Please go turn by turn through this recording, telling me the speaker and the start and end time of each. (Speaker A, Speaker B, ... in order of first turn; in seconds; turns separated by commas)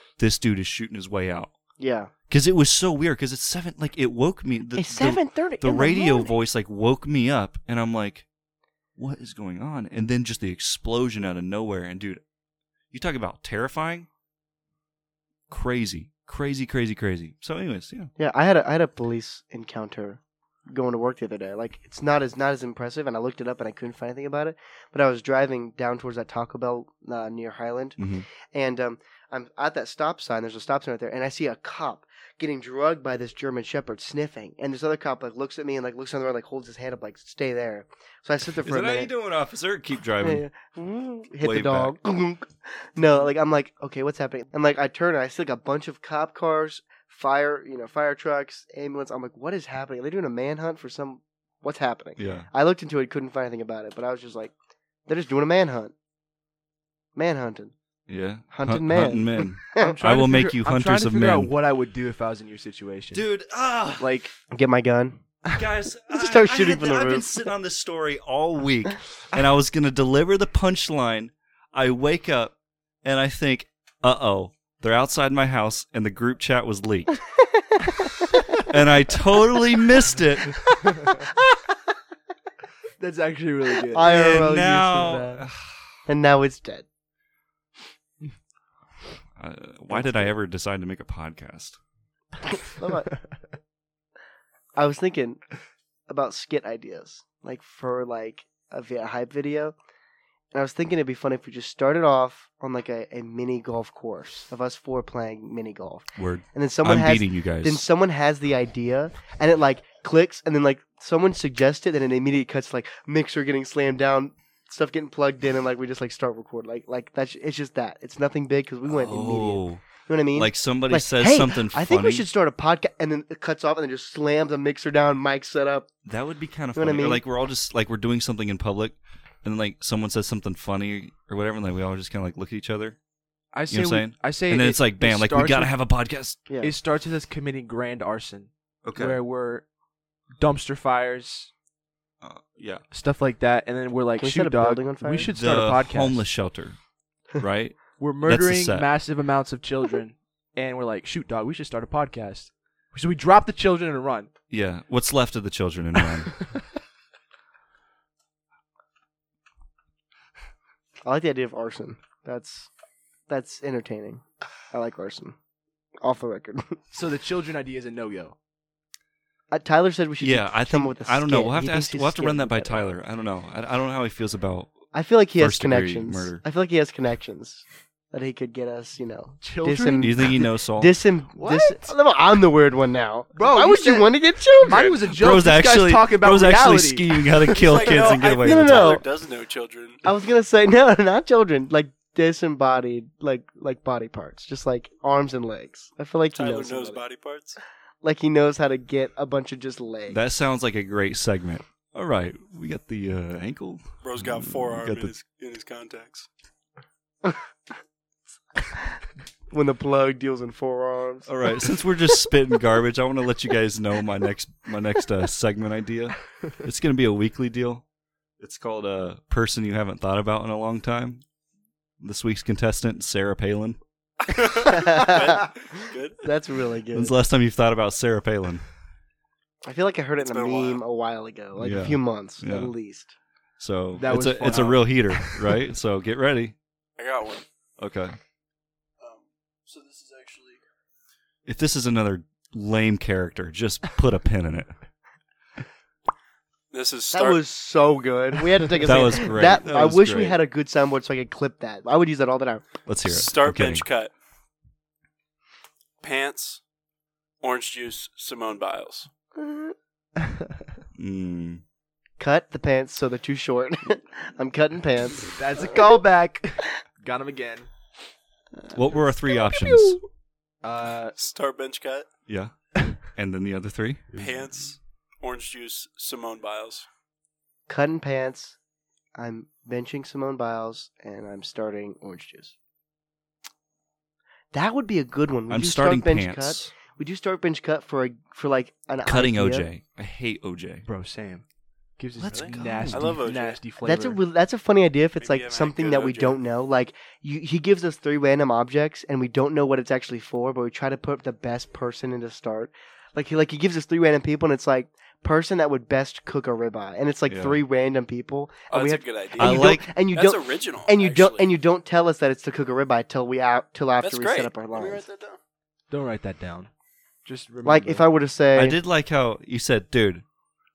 Speaker A: 0.2-1.5, Speaker B: 1.8-2.1, Speaker A: 2.3-8.2, Speaker B: 4.7-6.3, Speaker A: 9.0-12.2, Speaker A: 12.9-14.1, Speaker A: 15.5-18.1, Speaker B: 18.2-39.1, Speaker A: 28.0-28.2, Speaker A: 38.6-40.4, Speaker B: 40.2-54.5, Speaker A: 41.4-41.9, Speaker A: 52.2-52.5, Speaker B: 55.1-55.9, Speaker B: 57.1-57.7, Speaker A: 58.1-61.5, Speaker B: 58.5-59.9, Speaker C: 59.8-63.2, Speaker A: 63.1-64.1, Speaker C: 64.0-64.3, Speaker B: 64.5-65.2, Speaker A: 65.5-77.2, Speaker B: 66.1-67.4, Speaker B: 77.8-78.6, Speaker A: 78.6-80.6, Speaker B: 81.1-81.6, Speaker C: 83.0-84.1, Speaker B: 83.9-85.4, Speaker A: 84.0-85.8, Speaker B: 86.1-86.9, Speaker A: 89.4-91.8, Speaker B: 89.9-90.3, Speaker B: 92.5-93.1, Speaker B: 94.8-95.4, Speaker B: 96.1-99.7, Speaker B: 100.5-125.9, Speaker A: 106.2-107.8, Speaker A: 118.9-122.3, Speaker A: 126.0-133.0, Speaker B: 126.7-127.2, Speaker C: 133.5-135.7, Speaker A: 133.7-136.4, Speaker B: 136.5-136.7, Speaker C: 136.6-139.6, Speaker A: 138.8-139.2, Speaker C: 140.4-141.5, Speaker A: 142.2-142.8, Speaker C: 142.9-146.2, Speaker B: 144.2-145.3, Speaker A: 145.4-146.8, Speaker A: 147.4-148.9, Speaker C: 148.0-154.3, Speaker A: 154.5-156.4, Speaker B: 161.0-162.7, Speaker B: 163.3-165.4, Speaker B: 166.0-166.8, Speaker C: 166.9-168.4, Speaker B: 169.5-172.9, Speaker A: 170.2-174.7, Speaker B: 174.9-184.9, Speaker A: 175.4-176.4, Speaker C: 179.4-180.4, Speaker A: 180.0-181.0, Speaker C: 181.3-181.9, Speaker C: 183.3-187.7, Speaker A: 184.7-189.0, Speaker D: 187.6-190.0, Speaker B: 188.2-189.0, Speaker B: 190.0-197.0, Speaker D: 196.3-197.6, Speaker B: 198.0-200.2, Speaker A: 200.1-205.1, Speaker D: 204.0-206.3, Speaker B: 209.5-211.7, Speaker A: 211.2-217.8, Speaker A: 218.4-221.2, Speaker A: 222.0-223.8, Speaker D: 224.3-226.2, Speaker B: 224.6-227.2, Speaker A: 226.9-228.6, Speaker B: 229.6-233.1, Speaker D: 230.2-230.8, Speaker A: 231.6-232.7, Speaker A: 233.6-236.5, Speaker C: 233.9-235.6, Speaker D: 237.0-237.4, Speaker A: 237.8-238.2, Speaker D: 239.0-240.6, Speaker A: 241.4-244.7, Speaker D: 246.7-247.4, Speaker B: 247.1-252.7, Speaker A: 248.8-250.4, Speaker A: 252.9-253.8, Speaker D: 253.0-254.1, Speaker D: 256.0-256.6, Speaker D: 257.4-259.1, Speaker B: 259.4-259.7, Speaker A: 260.9-261.6, Speaker B: 262.2-265.4, Speaker C: 265.3-267.7, Speaker A: 268.7-270.0, Speaker B: 269.4-270.0, Speaker C: 270.6-271.1, Speaker D: 271.2-272.1, Speaker A: 272.3-274.1, Speaker C: 274.1-274.4, Speaker D: 274.1-276.9, Speaker B: 277.7-278.6, Speaker B: 279.2-282.5, Speaker B: 284.5-289.7, Speaker A: 285.5-286.7, Speaker A: 289.0-290.9, Speaker C: 290.9-291.4, Speaker C: 292.0-294.2, Speaker A: 292.2-293.2, Speaker D: 292.3-293.6, Speaker B: 293.8-315.1, Speaker D: 295.1-296.4, Speaker A: 307.3-307.6, Speaker D: 308.7-311.5, Speaker A: 309.4-309.9, Speaker D: 314.0-315.4, Speaker C: 315.9-316.7, Speaker C: 317.2-318.1, Speaker B: 317.6-318.8, Speaker A: 318.5-320.2